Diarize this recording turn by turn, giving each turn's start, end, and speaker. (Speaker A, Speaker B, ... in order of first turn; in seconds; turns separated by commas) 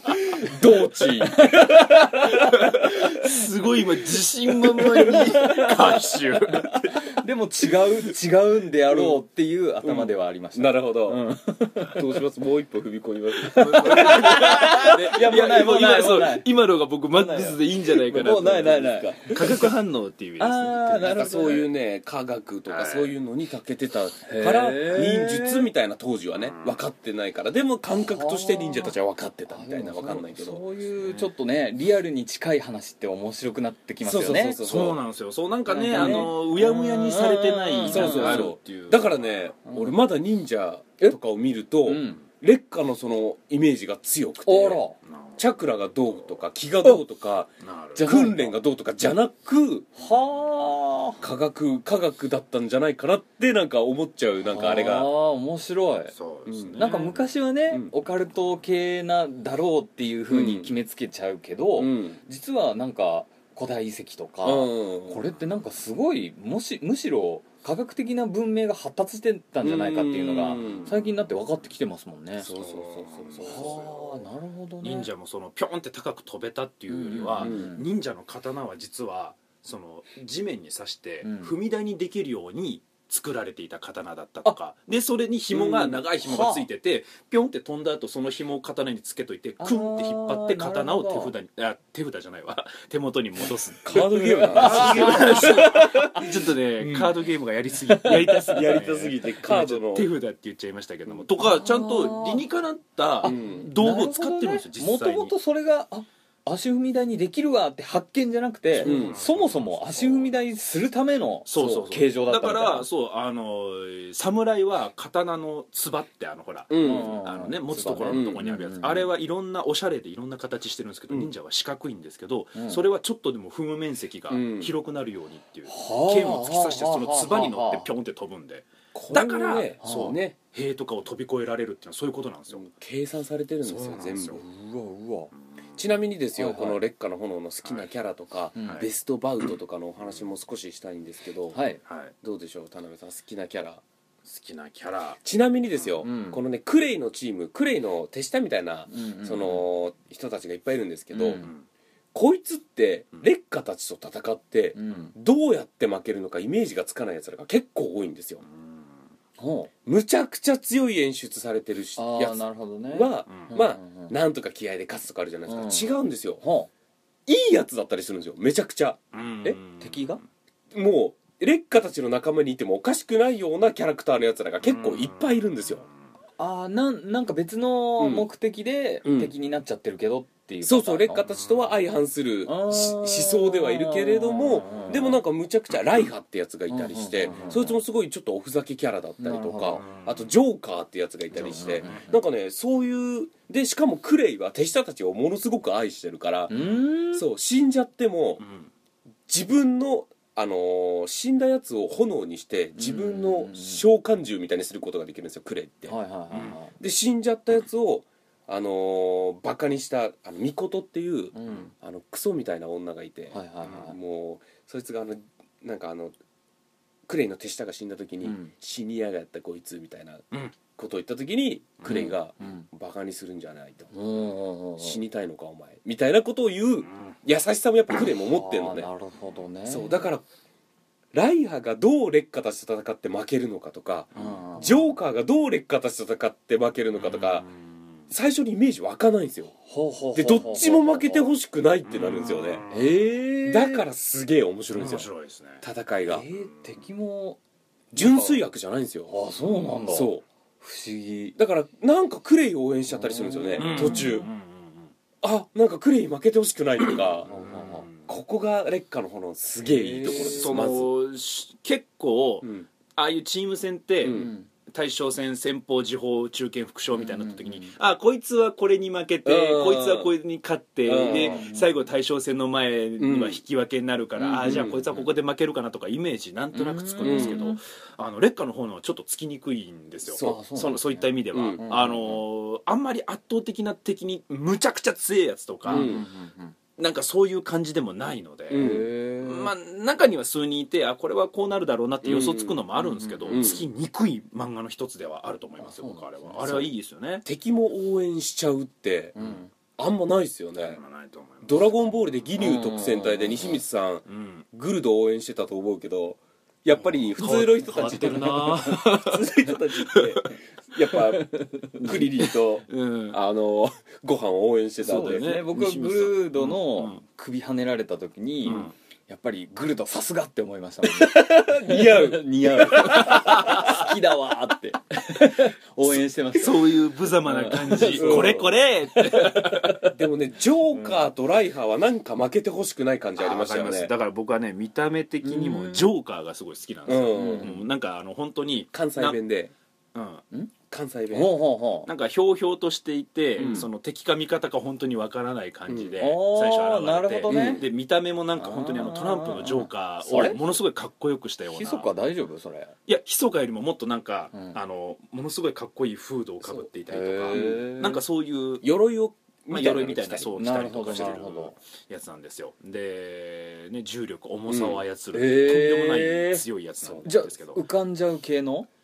Speaker A: 0.3-1.8, Speaker B: 1.2-3.4, Speaker C: 2.5-6.9, Speaker B: 4.8-12.0, Speaker A: 8.9-9.2, Speaker A: 9.8-11.2, Speaker A: 11.9-15.2, Speaker B: 13.4-16.5, Speaker C: 13.6-21.1, Speaker B: 17.2-19.7, Speaker A: 18.1-19.6, Speaker B: 20.4-21.7, Speaker A: 21.0-30.6, Speaker C: 22.7-23.1, Speaker B: 24.2-25.7, Speaker C: 26.4-26.8, Speaker B: 27.9-28.9, Speaker B: 29.5-34.6, Speaker C: 31.0-31.3, Speaker A: 34.0-35.0, Speaker C: 34.6-39.2, Speaker B: 35.7-38.5, Speaker A: 35.9-36.3, Speaker A: 37.9-44.8, Speaker B: 39.7-40.0, Speaker B: 41.9-42.2, Speaker B: 44.5-45.0, Speaker C: 45.0-46.4, Speaker A: 45.4-49.9, Speaker C: 47.6-48.3, Speaker B: 48.0-48.6, Speaker B: 50.0-51.2, Speaker A: 51.2-55.1, Speaker B: 54.5-56.1, Speaker C: 56.1-57.1, Speaker A: 56.5-57.1, Speaker B: 56.8-75.1, Speaker A: 60.3-60.7, Speaker A: 61.8-62.2, Speaker A: 64.4-65.2, Speaker A: 69.6-71.0, Speaker A: 72.4-74.2, Speaker C: 72.5-73.9, Speaker C: 74.8-105.3, Speaker B: 76.9-77.8, Speaker A: 77.4-77.8, Speaker B: 81.2-81.5, Speaker A: 85.5-86.0, Speaker B: 86.2-86.7, Speaker B: 89.6-91.3, Speaker A: 93.8-96.0, Speaker B: 93.9-96.3, Speaker A: 96.8-97.1, Speaker B: 97.9-98.6, Speaker A: 98.5-100.1, Speaker B: 101.4-102.5, Speaker B: 103.2-112.9, Speaker A: 103.2-103.7, Speaker C: 108.7-110.3, Speaker A: 108.8-109.3, Speaker C: 111.5-132.7, Speaker A: 116.7-117.2, Speaker B: 116.8-119.1, Speaker A: 118.1-118.4, Speaker B: 122.6-122.8, Speaker A: 124.3-124.7, Speaker B: 125.7-127.9, Speaker A: 128.9-130.4, Speaker B: 129.8-130.2, Speaker A: 132.6-134.4, Speaker C: 133.6-134.4, Speaker B: 134.4-135.3, Speaker A: 135.8-141.6, Speaker B: 136.4-136.8, Speaker C: 137.6-137.9, Speaker B: 138.6-138.9, Speaker C: 138.6-138.9, Speaker B: 141.5-141.8, Speaker C: 141.9-142.1, Speaker A: 142.2-143.8, Speaker C: 144.2-145.2, Speaker A: 145.2-151.5, Speaker B: 146.0-146.4, Speaker B: 148.9-149.6, Speaker B: 151.2-151.5, Speaker C: 151.2-151.6, Speaker A: 152.1-158.4, Speaker B: 154.8-155.1, Speaker C: 158.4-158.8, Speaker B: 159.4-159.7, Speaker A: 159.9-166.4, Speaker B: 162.0-164.2, Speaker C: 163.3-163.6, Speaker B: 165.5-166.7, Speaker A: 167.3-169.6, Speaker C: 169.1-170.2, Speaker B: 169.8-170.2, Speaker A: 170.7-175.8, Speaker C: 174.6-175.7, Speaker B: 176.4-181.2, Speaker A: 178.0-178.3, Speaker A: 179.1-179.3, Speaker A: 180.6-196.5, Speaker B: 182.5-185.2, Speaker B: 186.7-187.8, Speaker B: 189.2-189.8, Speaker C: 189.8-190.3, Speaker B: 191.3-192.2, Speaker C: 191.5-192.1, Speaker B: 196.5-197.2, Speaker A: 197.1-198.4, Speaker C: 198.4-198.7, Speaker A: 199.3-205.9, Speaker B: 202.8-203.8, Speaker B: 205.9-206.7, Speaker A: 206.6-216.2, Speaker B: 211.3-211.7, Speaker B: 213.3-214.0, Speaker A: 217.1-223.9, Speaker B: 218.2-218.5, Speaker B: 221.9-222.7, Speaker B: 223.9-225.0, Speaker A: 224.8-228.9, Speaker B: 228.2-230.0, Speaker A: 229.7-230.2, Speaker A: 231.1-237.5, Speaker B: 234.2-234.8, Speaker C: 237.0-237.6, Speaker A: 238.1-239.5, Speaker B: 239.7-241.3, Speaker A: 240.2-242.6, Speaker C: 241.9-243.0, Speaker B: 242.7-243.8, Speaker A: 243.5-245.1, Speaker C: 244.7-245.6, Speaker A: 245.6-246.3, Speaker B: 246.1-247.4, Speaker A: 247.9-249.2, Speaker B: 247.9-248.4, Speaker B: 249.1-251.4, Speaker A: 249.9-250.2, Speaker A: 251.4-254.3, Speaker B: 252.9-254.1, Speaker C: 253.6-254.9, Speaker A: 255.2-257.4, Speaker C: 256.9-258.1, Speaker B: 257.3-257.9, Speaker A: 258.0-260.9, Speaker B: 259.6-260.7, Speaker C: 260.1-286.0, Speaker A: 262.4-262.7, Speaker A: 264.0-264.3, Speaker B: 264.1-264.5, Speaker B: 266.9-267.7, Speaker A: 269.2-270.1, Speaker A: 270.9-271.4, Speaker B: 271.0-271.8, Speaker A: 273.0-273.4, Speaker A: 274.2-274.8, Speaker B: 274.4-275.1, Speaker B: 276.5-277.6, Speaker A: 277.0-277.4, Speaker A: 280.1-280.4, Speaker B: 280.2-282.2, Speaker A: 281.3-281.6, Speaker B: 285.7-286.6, Speaker A: 285.7-286.1, Speaker C: 286.8-297.2, Speaker A: 288.5-288.9, Speaker B: 288.6-289.5, Speaker A: 292.0-292.6, Speaker B: 292.8-293.6, Speaker A: 293.3-293.6, Speaker B: 295.6-296.6, Speaker A: 297.2-299.1, Speaker B: 299.2-299.5, Speaker A: 299.8-300.8, Speaker C: 300.6-302.1, Speaker A: 301.4-315.4, Speaker B: 302.4-303.6, Speaker C: 304.1-304.4, Speaker C: 306.8-309.2, Speaker B: 307.8-308.3, Speaker C: 309.8-310.3, Speaker B: 310.9-312.1, Speaker C: 311.9-313.2, Speaker C: 314.8-317.0, Speaker B: 314.8-329.9, Speaker C: 318.4-318.7, Speaker A: 320.9-323.7, Speaker C: 326.3-329.8, Speaker A: 327.8-328.5, Speaker A: 329.9-333.9, Speaker B: 330.7-331.0, Speaker C: 333.2-339.2, Speaker B: 335.2-335.9, Speaker A: 336.9-337.6, Speaker B: 337.1-337.6, Speaker A: 338.7-339.5, Speaker C: 339.9-340.2, Speaker A: 340.7-341.4, Speaker B: 341.1-341.9, Speaker C: 341.9-351.9, Speaker B: 343.4-343.7, Speaker A: 343.4-343.6, Speaker A: 345.7-346.0, Speaker B: 346.0-347.6, Speaker A: 347.3-347.7, Speaker B: 348.4-350.4, Speaker B: 351.5-352.7, Speaker C: 352.9-358.7, Speaker B: 356.9-358.0, Speaker A: 357.3-357.7, Speaker A: 358.6-360.3, Speaker C: 359.5-367.6, Speaker B: 360.4-361.6, Speaker A: 360.9-361.1, Speaker A: 364.5-364.8, Speaker B: 365.1-366.4, Speaker A: 366.8-367.2, Speaker B: 367.0-368.7